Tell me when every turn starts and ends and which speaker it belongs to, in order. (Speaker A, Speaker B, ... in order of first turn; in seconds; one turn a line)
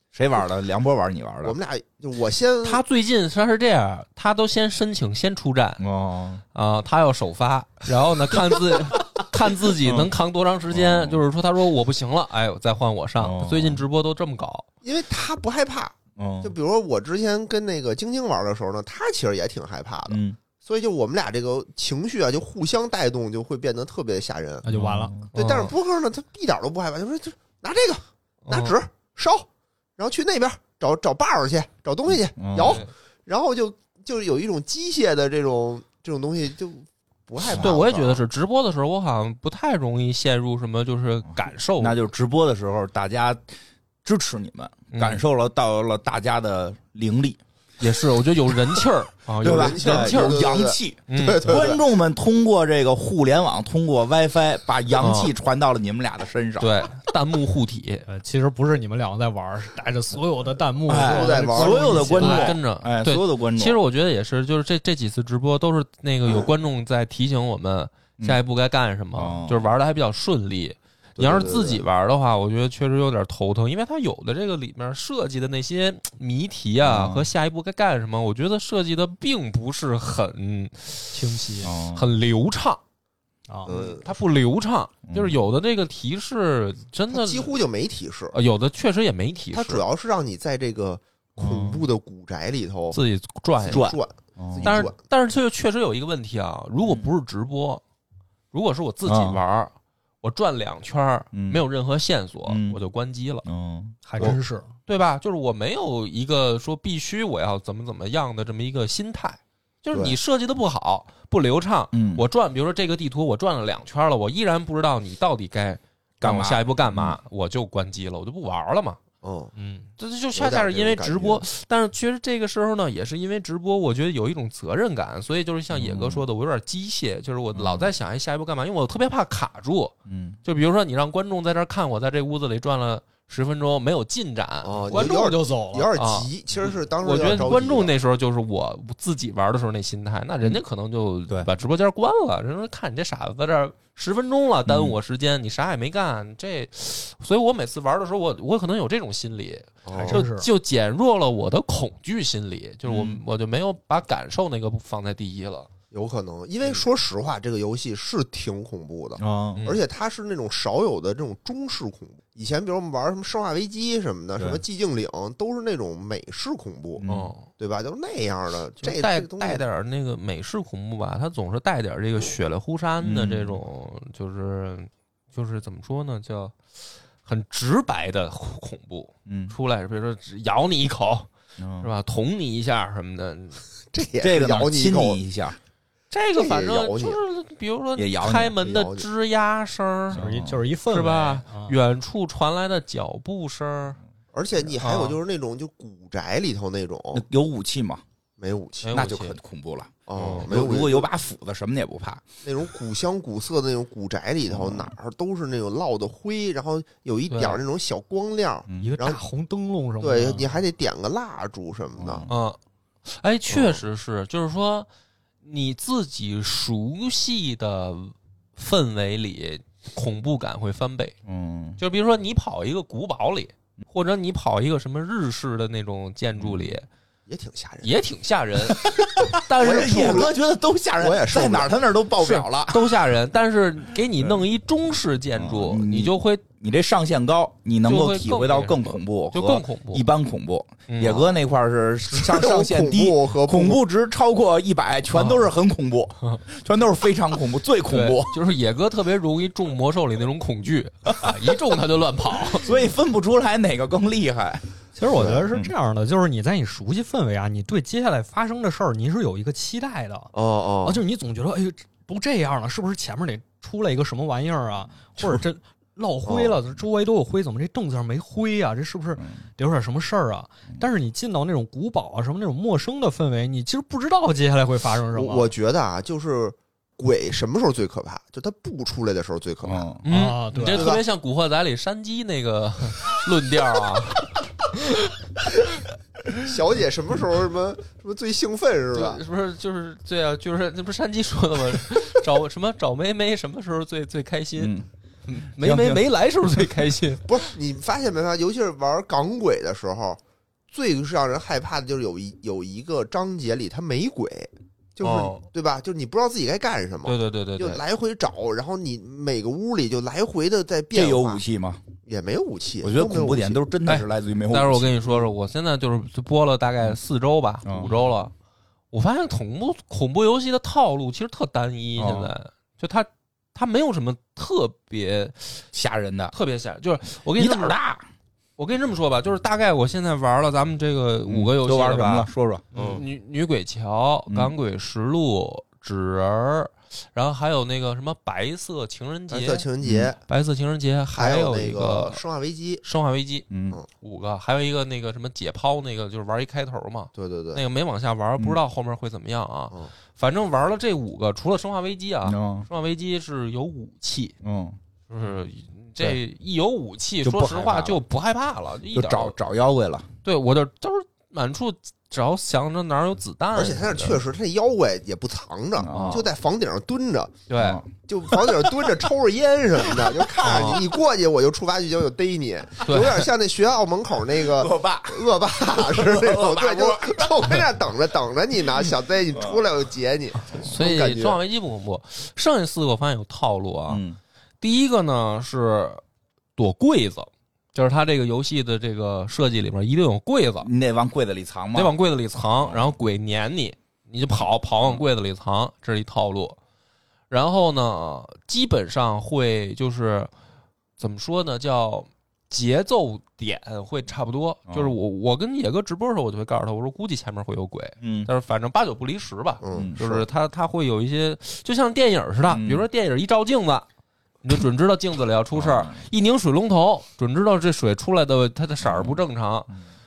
Speaker A: 0.1-1.6
Speaker B: 1.4-2.8
Speaker C: 2.6-5.8
Speaker A: 5.8-6.4
Speaker C: 6.5-14.7
Speaker A: 9.8-10.1
Speaker A: 10.7-11.2
Speaker A: 13.2-13.8
Speaker B: 14.8-24.7
Speaker A: 16.2-16.5
Speaker A: 20.1-20.4
Speaker D: 24.6-25.1
Speaker A: 24.7-25.3
Speaker C: 25.3-25.7
Speaker B: 25.3-38.2
Speaker C: 28.4-28.8
Speaker A: 32.1-32.8
Speaker C: 32.6-32.9
Speaker A: 37.5-37.8
Speaker C: 37.5-42.0
Speaker A: 41.8-47.4
Speaker C: 44.9-45.2
Speaker C: 47.8-50.5
Speaker A: 49.4-56.7
Speaker B: 49.4-51.8
Speaker C: 51.1-51.7
Speaker C: 55.0-55.3
Speaker C: 56.6-58.1
Speaker D: 58.1-62.6
Speaker A: 60.9-63.8
Speaker B: 61.0-62.5
Speaker C: 62.2-82.8
Speaker A: 69.1-69.6
Speaker B: 71.2-71.8
Speaker A: 76.8-77.3
Speaker D: 81.1-81.7
Speaker A: 81.6-82.1
Speaker B: 83.7-84.1
Speaker C: 83.7-87.6
Speaker A: 85.1-85.3
Speaker B: 87.1-88.3
Speaker C: 88.3-89.8
Speaker B: 89.5-93.0
Speaker C: 91.4-91.8
Speaker C: 92.9-93.9
Speaker B: 93.7-94.9
Speaker A: 93.7-94.9
Speaker C: 94.6-97.8
Speaker A: 96.8-97.1
Speaker C: 98.5-103.4
Speaker A: 99.0-99.4
Speaker A: 101.3-101.6
Speaker A: 102.5-102.8
Speaker A: 103.4-104.4
Speaker D: 104.1-104.7
Speaker C: 104.9-119.0
Speaker B: 109.9-110.2
Speaker A: 111.9-112.2
Speaker A: 116.2-117.2
Speaker B: 119.2-119.5
Speaker D: 119.6-119.9
Speaker C: 120.0-135.1
Speaker B: 120.3-121.4
Speaker A: 125.7-126.2
Speaker A: 127.5-127.9
Speaker A: 130.1-130.4
Speaker B: 134.6-137.9
Speaker D: 134.9-135.9
Speaker C: 135.9-155.7
Speaker A: 144.7-145.0
Speaker B: 149.8-150.2
Speaker D: 149.9-150.5
Speaker A: 152.9-153.2
Speaker B: 155.9-167.0
Speaker A: 159.2-159.6
Speaker A: 164.4-164.6
Speaker A: 167.0-167.3
Speaker C: 167.1-167.5
Speaker B: 167.6-169.6
Speaker C: 168.8-176.6
Speaker A: 173.0-173.6
Speaker C: 177.2-183.6
Speaker A: 179.3-179.6
Speaker A: 181.6-181.9
Speaker B: 183.9-185.2
Speaker A: 184.2-185.6
Speaker C: 186.1-194.0
Speaker B: 186.3-187.2
Speaker A: 187.9-188.6
Speaker B: 188.6-189.1
Speaker A: 190.1-190.6
Speaker D: 190.1-191.8
Speaker B: 194.3-197.2
Speaker C: 194.8-195.2
Speaker A: 197.1-198.0
Speaker B: 198.4-199.1
Speaker C: 198.8-199.4
Speaker A: 198.9-202.2
Speaker B: 200.1-201.1
Speaker C: 200.1-200.5
Speaker B: 202.4-209.2
Speaker A: 204.5-204.9
Speaker C: 207.3-207.6
Speaker A: 208.7-209.0
Speaker D: 208.8-210.6
Speaker B: 210.0-212.3
Speaker A: 212.0-212.3
Speaker C: 212.3-214.9
Speaker B: 213.5-213.8
Speaker C: 215.4-221.1
Speaker A: 221.2-221.8
Speaker C: 221.8-226.9
Speaker A: 226.4-226.7
Speaker B: 227.3-227.9
Speaker C: 227.8-230.3
Speaker A: 228.8-232.8
Speaker B: 229.6-230.3
Speaker B: 231.0-231.9
Speaker C: 232.2-236.4
Speaker A: 234.2-234.4
Speaker A: 235.4-248.3
Speaker C: 237.8-240.0
Speaker C: 240.9-241.3
Speaker B: 242.1-243.8
Speaker C: 245.1-245.4
Speaker C: 247.9-252.7
Speaker A: 252.6-254.7
Speaker D: 254.9-260.3
Speaker B: 255.1-255.5
Speaker A: 255.5-255.7
Speaker B: 260.3-261.0
Speaker D: 260.8-275.5
Speaker B: 266.2-266.6
Speaker B: 275.1-279.9
Speaker A: 279.6-280.1
Speaker C: 280.0-285.0
Speaker D: 280.1-280.9
Speaker B: 280.7-281.0
Speaker B: 286.3-289.2
Speaker C: 288.9-294.8
Speaker A: 294.6-294.9
Speaker C: 295.2-297.2
Speaker A: 295.6-296.0
Speaker B: 297.2-311.4
Speaker C: 305.0-305.4
Speaker C: 307.1-307.8
Speaker A: 310.9-311.8
Speaker B: 312.1-313.6
Speaker A: 312.8-315.2
Speaker C: 313.9-318.3
Speaker A: 317.6-317.9
Speaker C: 318.9-325.7
Speaker A: 322.0-322.3
Speaker A: 325.7-326.3
Speaker C: 326.3-327.8
Speaker A: 327.4-328.1
Speaker C: 328.6-339.7
Speaker A: 331.3-332.7
Speaker D: 332.7-333.0
Speaker B: 332.7-333.0
Speaker A: 334.3-334.5
Speaker B: 339.3-340.2
Speaker A: 339.8-340.1
Speaker C: 340.3-342.2
Speaker B: 341.1-342.8
Speaker C: 342.8-343.4
Speaker A: 343.5-343.8
Speaker C: 344.0-354.3
Speaker B: 347.1-347.6
Speaker A: 352.2-352.7
Speaker A: 354.4-354.8
Speaker C: 355.1-359.4
Speaker A: 357.2-358.0
Speaker A: 358.9-360.1
Speaker C: 360.2-364.2
Speaker B: 363.5-367.4
Speaker A: 365.8-366.3
Speaker C: 365.9-366.2
Speaker C: 367.5-367.8
Speaker A: 367.6-367.9
Speaker B: 368.1-381.4
Speaker A: 370.2-370.8
Speaker C: 370.4-370.8
Speaker C: 372.8-373.2
Speaker A: 374.4-377.7
Speaker A: 379.3-379.6
Speaker C: 380.5-384.0
Speaker A: 383.9-384.2
Speaker C: 384.6-386.0
Speaker C: 386.6-390.7
Speaker A: 390.6-391.9
Speaker C: 391.7-396.6
Speaker C: 397.3-400.3
Speaker C: 401.0-413.9
Speaker A: 404.7-404.9
Speaker A: 408.0-408.3
Speaker B: 409.6-410.3
Speaker A: 412.5-412.8
Speaker C: 414.4-419.7
Speaker A: 415.6-416.0
Speaker A: 418.8-419.2